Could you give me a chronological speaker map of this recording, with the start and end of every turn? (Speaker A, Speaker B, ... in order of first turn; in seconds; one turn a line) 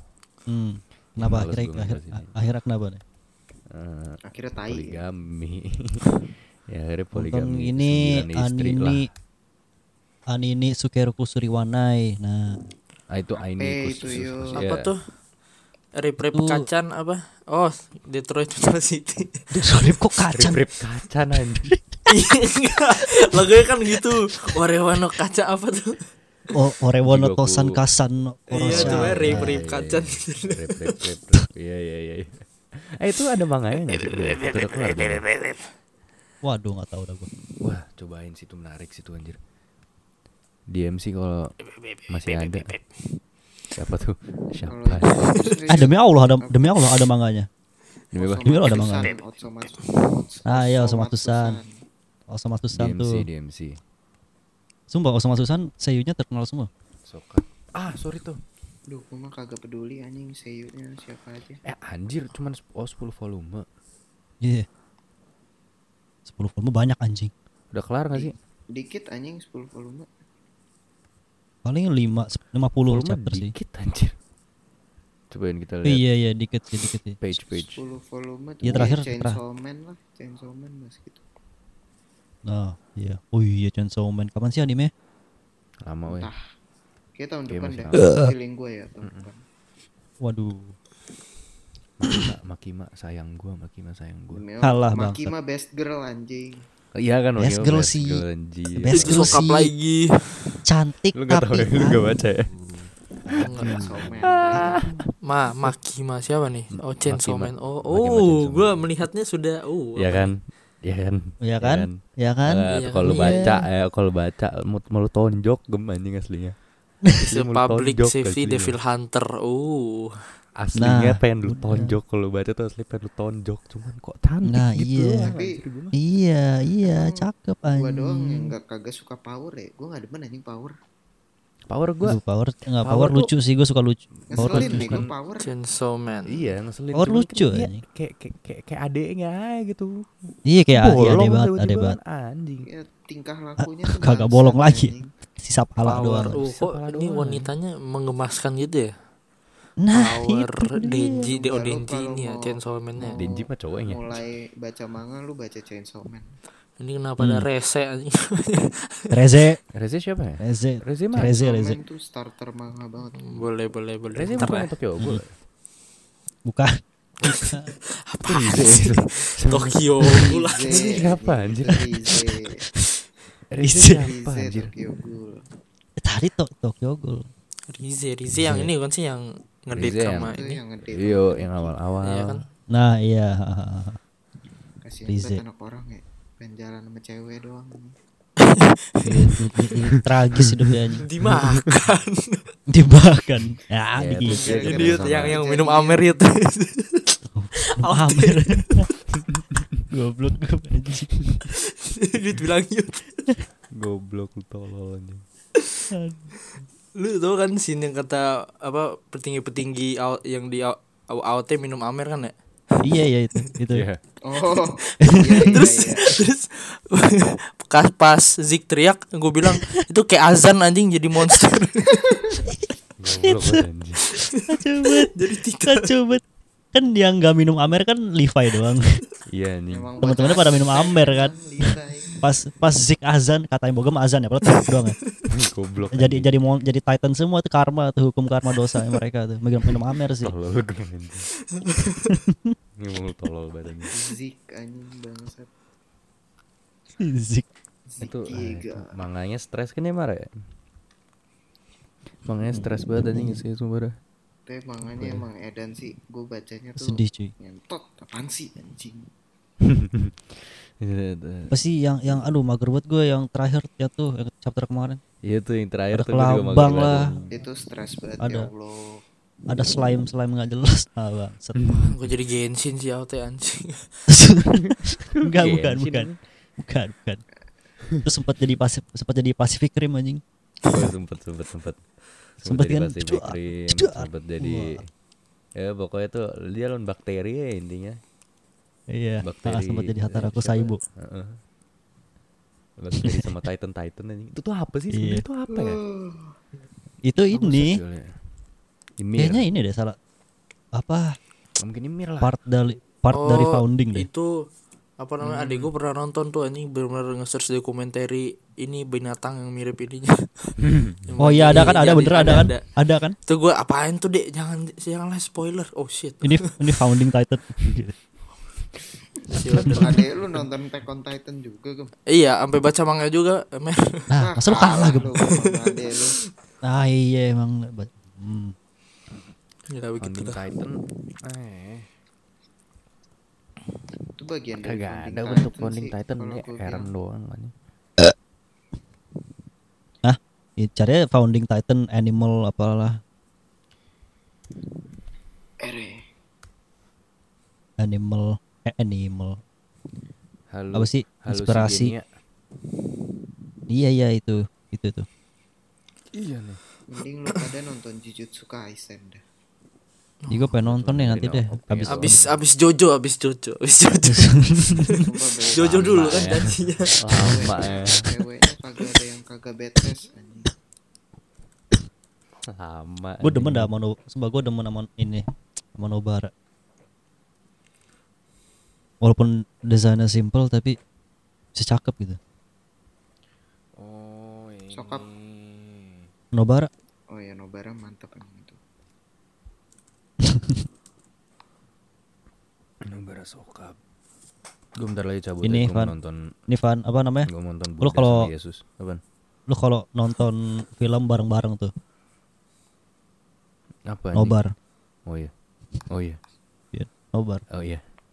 Speaker A: 0.5-3.0
Speaker B: 1.1-2.4
Speaker B: 3.7-9.1
Speaker C: 4.3-5.0
Speaker A: 7.1-9.1
Speaker A: 10.3-12.6
Speaker B: 13.1-14.9
Speaker C: 13.4-14.7
Speaker D: 14.5-15.0
Speaker D: 16.0-19.4
Speaker A: 16.3-16.6
Speaker A: 19.5-20.6
Speaker B: 20.3-21.7
Speaker D: 22.1-26.0
Speaker A: 23.1-23.4
Speaker A: 26.5-29.6
Speaker B: 27.0-27.8
Speaker D: 28.5-30.9
Speaker B: 28.6-35.2
Speaker D: 33.9-35.6
Speaker A: 36.4-37.3
Speaker B: 37.6-39.4
Speaker B: 40.7-41.5
Speaker D: 41.6-42.9
Speaker B: 42.1-42.7
Speaker B: 43.7-45.5
Speaker C: 44.7-46.8
Speaker D: 45.3-45.5
Speaker A: 45.7-47.5
Speaker B: 48.1-48.8
Speaker C: 48.1-51.7
Speaker A: 48.4-49.1
Speaker A: 50.5-51.6
Speaker A: 52.3-53.2
Speaker B: 52.7-53.8
Speaker A: 54.9-56.7
Speaker B: 57.0-58.4
Speaker C: 58.9-61.6
Speaker B: 61.6-63.7
Speaker A: 64.4-64.7
Speaker A: 66.2-67.3
Speaker B: 67.7-68.3
Speaker C: 68.1-70.1
Speaker A: 71.6-73.5
Speaker B: 72.9-74.1
Speaker B: 75.3-76.0
Speaker A: 75.8-77.2
Speaker B: 77.2-77.8
Speaker C: 77.5-81.2
Speaker A: 78.6-79.4
Speaker A: 82.5-84.9
Speaker B: 85.8-86.3
Speaker C: 86.1-86.4
Speaker C: 87.2-89.4
Speaker B: 87.5-88.0
Speaker A: 88.0-88.3
Speaker B: 89.0-89.3
Speaker A: 90.2-90.7
Speaker B: 92.0-94.4
Speaker C: 94.3-96.6
Speaker A: 94.6-95.3
Speaker B: 96.9-99.4
Speaker A: 97.4-99.7
Speaker D: 98.9-100.3
Speaker A: 100.6-102.0
Speaker B: 101.1-102.5
Speaker B: 103.2-105.0
Speaker C: 103.4-104.9
Speaker D: 103.4-103.9
Speaker D: 105.2-110.3
Speaker B: 107.0-108.9
Speaker B: 110.0-116.5
Speaker A: 111.4-113.6
Speaker D: 112.7-113.6
Speaker B: 117.2-118.8
Speaker D: 117.3-120.3
Speaker B: 120.5-125.9
Speaker A: 120.7-122.0
Speaker A: 124.4-125.3
Speaker C: 125.3-125.6
Speaker A: 125.9-128.5
Speaker C: 126.8-130.7
Speaker B: 131.7-132.2
Speaker A: 132.0-135.0
Speaker B: 132.8-133.3
Speaker B: 134.3-135.1
Speaker C: 134.3-135.5
Speaker D: 135.4-136.5
Speaker B: 136.2-140.1
Speaker A: 136.9-137.8
Speaker A: 140.4-142.0
Speaker B: 140.7-142.7
Speaker C: 142.6-145.1
Speaker A: 143.6-146.4
Speaker B: 145.8-147.5
Speaker D: 145.9-148.9
Speaker A: 149.8-151.3
Speaker D: 149.9-153.3
Speaker C: 151.2-156.3
Speaker B: 153.2-154.2
Speaker D: 156.8-159.1
Speaker A: 157.2-157.4
Speaker A: 159.1-159.6
Speaker B: 159.7-161.3
Speaker A: 160.4-161.8
Speaker C: 161.2-163.5
Speaker D: 163.1-164.7
Speaker B: 164.1-165.4
Speaker A: 166.4-167.7
Speaker B: 167.2-167.5
Speaker D: 168.0-171.1
Speaker B: 168.2-171.9
Speaker C: 170.1-172.7
Speaker B: 173.5-174.7
Speaker A: 173.6-174.0
Speaker C: 173.9-175.4
Speaker A: 176.0-177.3
Speaker D: 177.7-180.6
Speaker A: 178.3-178.7
Speaker B: 179.7-182.4
Speaker C: 180.2-181.7
Speaker D: 182.0-182.4
Speaker A: 182.7-184.0
Speaker C: 184.8-187.9
Speaker A: 185.1-185.4
Speaker D: 188.4-189.3
Speaker A: 189.0-191.1
Speaker B: 189.9-191.8
Speaker D: 191.0-192.5
Speaker A: 192.7-194.4
Speaker B: 193.9-195.4
Speaker C: 194.2-196.2
Speaker D: 194.3-198.8
Speaker A: 197.3-198.9
Speaker B: 199.3-199.6
Speaker A: 199.9-201.2
Speaker D: 201.5-203.2
Speaker B: 203.8-205.2
Speaker A: 205.9-206.2
Speaker D: 206.9-212.3
Speaker A: 212.8-213.8
Speaker B: 213.7-214.0
Speaker C: 214.2-216.2
Speaker A: 215.0-215.7
Speaker D: 215.0-222.1
Speaker B: 223.0-224.0
Speaker A: 223.2-223.6
Speaker D: 224.2-225.9
Speaker A: 224.5-226.2
Speaker A: 226.7-228.8
Speaker B: 229.3-229.9
Speaker C: 229.7-232.2
Speaker A: 230.0-234.9
Speaker D: 234.6-235.2
Speaker B: 235.3-236.3
Speaker A: 235.9-240.3
Speaker B: 240.2-241.3
Speaker D: 241.5-242.1
Speaker A: 242.1-242.5
Speaker B: 242.8-244.0
Speaker C: 243.9-245.5
Speaker A: 247.0-247.5
Speaker C: 247.9-249.0
Speaker B: 248.0-250.3
Speaker B: 252.2-254.0
Speaker C: 254.5-259.1
Speaker B: 254.8-255.2
Speaker A: 256.8-257.3
Speaker B: 259.6-261.5
Speaker A: 261.5-265.0
Speaker B: 265.2-267.4
Speaker A: 265.9-267.1
Speaker C: 267.3-269.0
Speaker A: 268.2-268.5
Speaker A: 269.5-271.7
Speaker B: 271.5-272.0
Speaker D: 271.7-273.9
Speaker A: 274.1-277.2
Speaker B: 274.5-276.2
Speaker A: 278.0-280.2
Speaker B: 280.6-281.8
Speaker B: 282.4-284.8
Speaker A: 282.4-284.8
Speaker B: 285.6-288.0
Speaker A: 288.9-290.8
Speaker B: 289.2-291.4
Speaker B: 292.8-295.8
Speaker A: 294.9-295.2
Speaker C: 295.5-296.3
Speaker A: 297.0-297.8
Speaker B: 297.3-298.2
Speaker B: 299.0-299.4
Speaker A: 299.1-300.0
Speaker A: 300.7-301.2
Speaker B: 301.6-302.3
Speaker A: 302.2-304.1
Speaker D: 303.1-304.4
Speaker D: 305.0-316.4
Speaker B: 305.2-305.7
Speaker B: 310.6-312.5
Speaker A: 311.2-313.1
Speaker A: 316.2-317.9
Speaker D: 319.3-320.1
Speaker B: 319.5-319.9
Speaker A: 319.5-319.8
Speaker C: 319.6-321.9
Speaker D: 322.1-324.1
Speaker A: 324.1-325.1
Speaker C: 324.2-326.2
Speaker D: 325.2-326.0
Speaker A: 326.6-328.5
Speaker D: 329.7-330.4
Speaker B: 330.0-331.9
Speaker C: 334.2-336.9
Speaker B: 334.6-337.5
Speaker A: 340.0-343.0
Speaker C: 345.6-346.0
Speaker A: 347.8-349.4
Speaker B: 350.5-352.1
Speaker A: 350.7-351.9
Speaker A: 353.7-355.1
Speaker B: 356.1-356.6
Speaker C: 356.9-359.2
Speaker D: 360.2-360.5
Speaker A: 360.3-362.2
Speaker B: 360.6-362.4
Speaker D: 361.9-367.1
Speaker A: 364.1-364.9
Speaker C: 365.0-366.3
Speaker B: 365.6-368.1
Speaker C: 367.1-370.5
Speaker B: 372.4-373.7
Speaker A: 373.2-375.2
Speaker A: 375.8-376.3
Speaker A: 379.0-380.8
Speaker A: 381.5-382.2
Speaker B: 383.8-386.1
Speaker C: 384.7-385.1
Speaker A: 386.3-386.7
Speaker C: 387.1-388.6
Speaker A: 390.3-390.5
Speaker B: 392.8-393.8
Speaker B: 394.8-396.3
Speaker A: 395.4-395.9
Speaker A: 396.5-397.3
Speaker B: 397.2-399.0
Speaker A: 397.8-398.3
Speaker A: 399.5-401.7
Speaker B: 403.9-404.4
Speaker A: 404.1-404.5
Speaker B: 405.1-405.3
Speaker B: 405.9-406.2
Speaker A: 406.7-407.4
Speaker B: 407.5-407.8